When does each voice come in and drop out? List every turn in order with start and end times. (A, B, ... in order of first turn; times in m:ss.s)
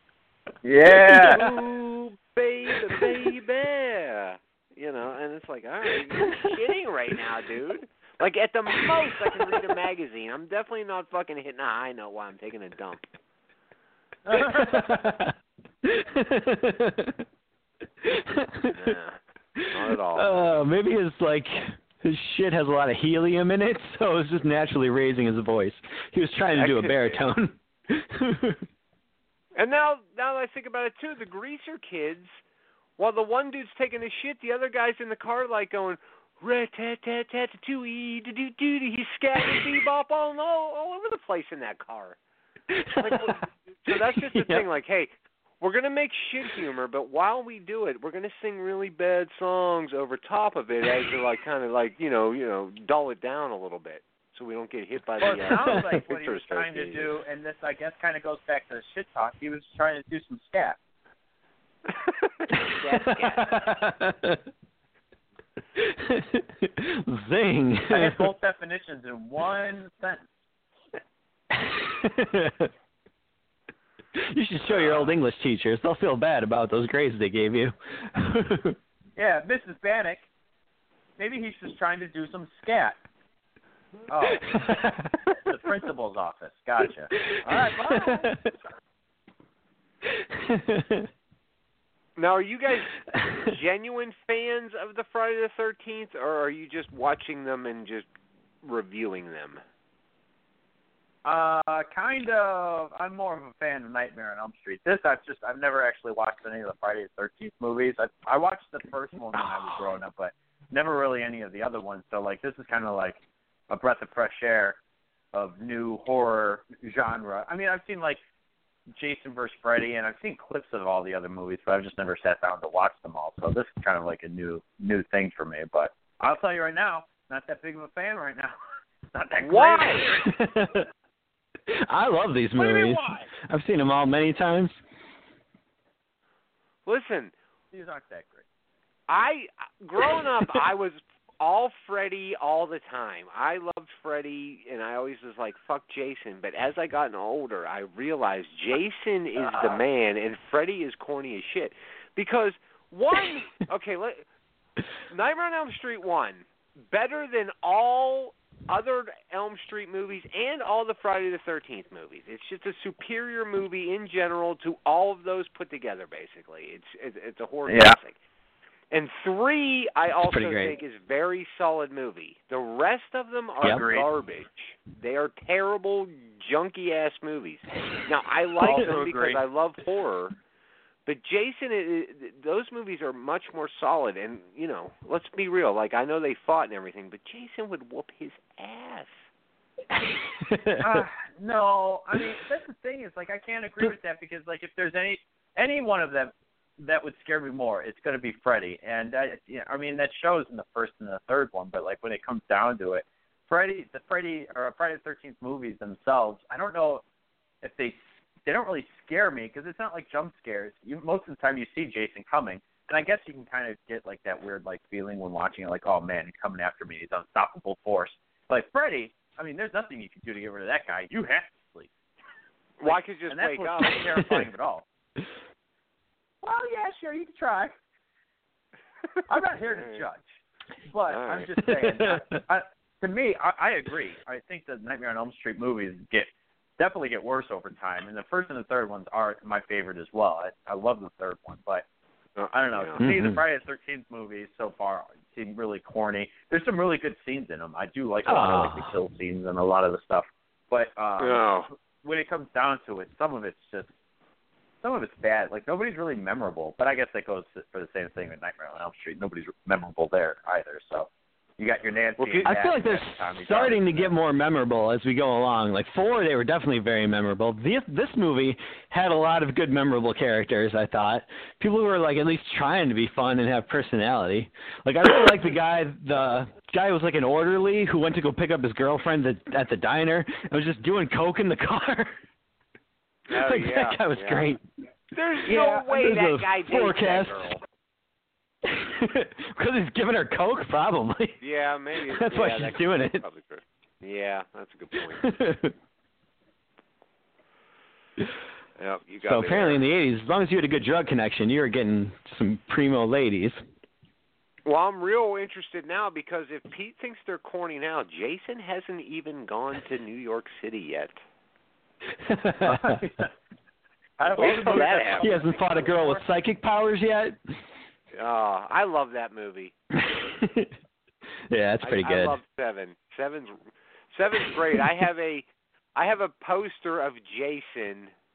0:00.6-0:01.4 A
0:01.0-0:01.6 B
0:01.1-0:13.1 C
0:02.7-0:03.3 B
0:08.8-0:09.5 B
0:14.3-0:14.8 A
0:14.3-0:17.2 B
0:18.0-0:18.9 B
0:18.7-0:19.2 C
0:19.6-0:28.6 B
0:19.7-0:20.4 C
0:26.5-0:27.2 C
0:29.6-0:32.4 C
0:33.0-0:42.2 C
0:42.7-0:43.3 B
0:42.9-0:57.1 C
0:43.9-0:44.6 B
0:55.2-1:00.8 A
0:55.5-0:55.8 B
1:01.9-1:03.6 C
1:03.0-1:04.4 B
1:05.8-1:08.3 B
1:07.9-1:10.2 A
1:11.5-1:12.7 B
1:14.1-1:18.8 B
1:14.7-1:15.1 A
1:19.2-1:20.2 A
1:21.2-1:23.0 A
1:24.1-1:28.5 A
1:24.4-1:25.1 B
1:27.2-1:28.5 B
1:30.0-1:31.1 B
1:32.2-1:38.1 C
1:38.6-1:39.6 C
1:41.2-1:54.8 A
1:55.3-1:58.2 A
1:59.0-2:08.5 A
2:09.1-2:10.3 A
2:09.4-2:10.1 C
2:10.2-2:10.9 B
2:11.7-2:14.8 B
2:12.6-2:13.3 A
2:16.8-2:17.3 C
2:17.7-2:18.4 A
2:19.1-2:34.2 C
2:35.1-2:48.2 C
2:47.7-2:48.0 A
2:48.9-3:00.3 C
2:50.2-2:50.7 B
2:53.6-2:54.1 A
2:58.6-2:59.4 A
3:01.0-3:09.2 C
3:09.9-3:11.0 B
3:10.8-3:27.0 A
3:27.6-3:41.9 A
3:42.8-3:44.0 C
3:42.8-3:44.8 A
3:46.4-3:47.7 A
3:49.3-3:50.2 A
3:49.7-3:50.0 C
3:50.9-4:01.8 A
3:51.1-3:51.5 C
3:51.6-3:52.4 B
4:02.4-4:03.0 C
4:02.5-4:13.9 A
4:03.0-4:03.4 B
4:08.2-4:08.9 B
4:11.2-4:11.7 C
4:14.8-4:24.1 A
4:22.2-4:22.5 C
4:22.4-4:42.1 B
4:43.3-4:44.5 C
4:43.3-4:44.6 B
4:45.1-4:47.6 C
4:45.5-4:45.8 A
4:45.5-4:47.5 B
4:48.6-4:51.4 B
4:51.4-4:55.3 C
4:52.1-4:53.2 B
4:55.2-4:55.7 B
4:58.8-4:59.8 C
4:59.2-5:03.6 B
5:04.6-5:11.2 C
5:12.1-5:13.0 B
5:12.6-5:13.3 A
5:14.2-5:16.2 A
5:14.3-5:15.3 C
5:14.7-5:17.5 B
5:18.1-5:19.7 C
5:19.9-5:20.7 B
5:21.5-5:22.4 B
5:21.8-5:28.1 C